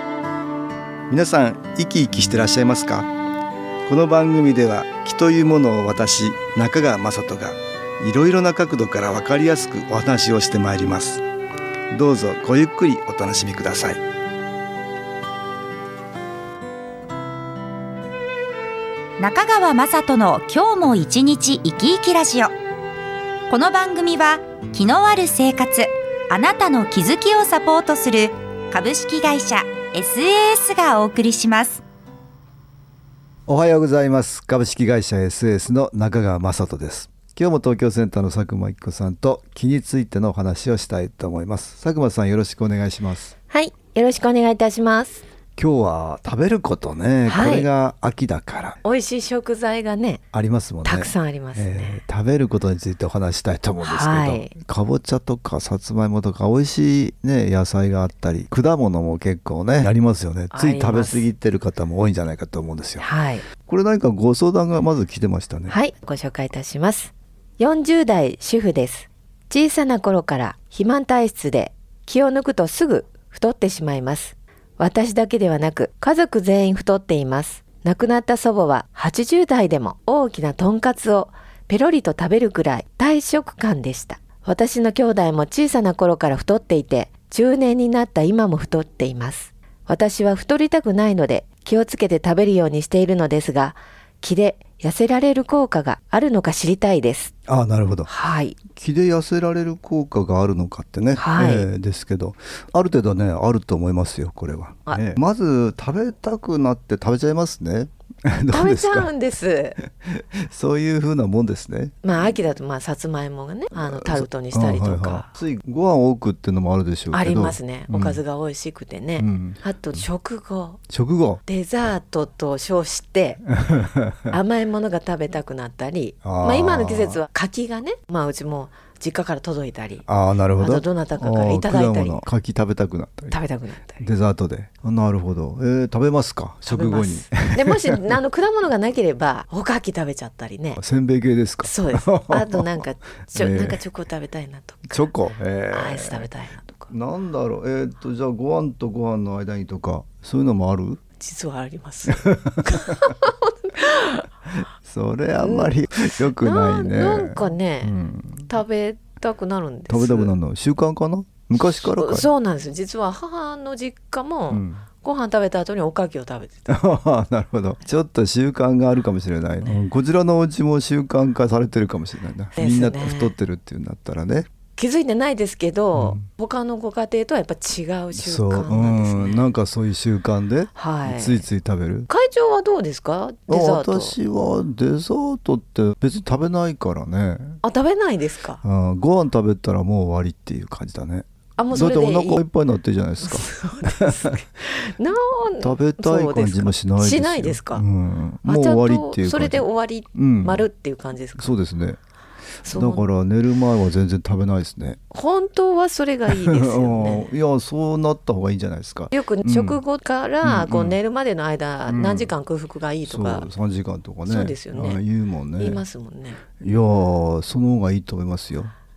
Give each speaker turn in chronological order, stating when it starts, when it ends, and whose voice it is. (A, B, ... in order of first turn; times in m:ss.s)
0:01.1-0:03.1 A
0:03.8-0:11.2 A
0:11.9-0:14.0 A
0:19.2-0:22.5 B
0:23.5-0:31.8 B
0:33.5-0:43.3 A
0:43.5-0:45.2 C
0:45.6-0:48.8 A
0:47.3-0:47.7 C
0:48.8-0:50.2 C
0:50.3-1:03.0 A
0:50.8-0:52.0 C
0:53.8-0:54.5 C
1:00.5-1:01.2 C
1:03.0-1:03.4 C
1:03.6-1:05.8 A
1:05.7-1:37.3 C
1:37.5-1:38.1 A
1:38.1-1:38.6 C
1:38.7-1:49.1 A
1:41.2-1:41.7 C
1:48.5-1:49.8 C
1:49.8-1:51.9 A
1:52.0-1:55.3 C
1:53.7-1:58.2 A
1:57.1-2:00.8 C
1:59.2-2:00.0 A
2:00.9-2:01.4 A
2:01.4-2:03.5 C
2:03.6-2:04.3 A
2:04.3-2:12.2 C
2:06.2-2:07.2 A
2:10.1-2:13.4 A
2:13.3-2:14.0 C
2:14.0-2:18.2 A
2:16.6-2:20.8 C
2:20.8-2:23.8 A
2:21.6-2:25.1 C
2:24.9-2:26.3 A
2:25.7-2:26.9 C
2:26.9-2:31.0 A
2:31.2-2:34.3 C
2:32.1-2:32.6 A
2:34.8-2:38.5 A
2:35.4-2:37.9 C
2:38.5-2:40.4 C
2:39.9-2:42.3 A
2:41.6-2:46.7 C
2:44.5-2:44.8 A
2:46.7-2:54.5 A
2:52.6-2:53.3 C
2:54.7-2:59.5 C
2:55.9-2:56.2 A
2:58.1-3:02.1 A
3:00.7-3:01.5 C
3:02.1-3:04.2 C
3:03.5-3:07.6 A
3:07.6-3:08.6 C
3:08.6-3:14.3 A
3:11.6-3:12.4 C
3:13.2-3:17.8 C
3:15.6-3:20.7 A
3:18.4-3:21.6 C
3:21.4-3:22.0 A
3:22.6-3:23.1 C
3:22.6-3:25.0 A
3:25.1-3:27.3 C
3:26.3-3:29.8 A
3:29.1-3:33.5 C
3:30.4-3:31.0 A
3:31.9-3:32.3 A
3:33.0-3:35.8 A
3:34.2-3:35.0 C
3:35.6-3:36.4 C
3:36.6-3:38.7 A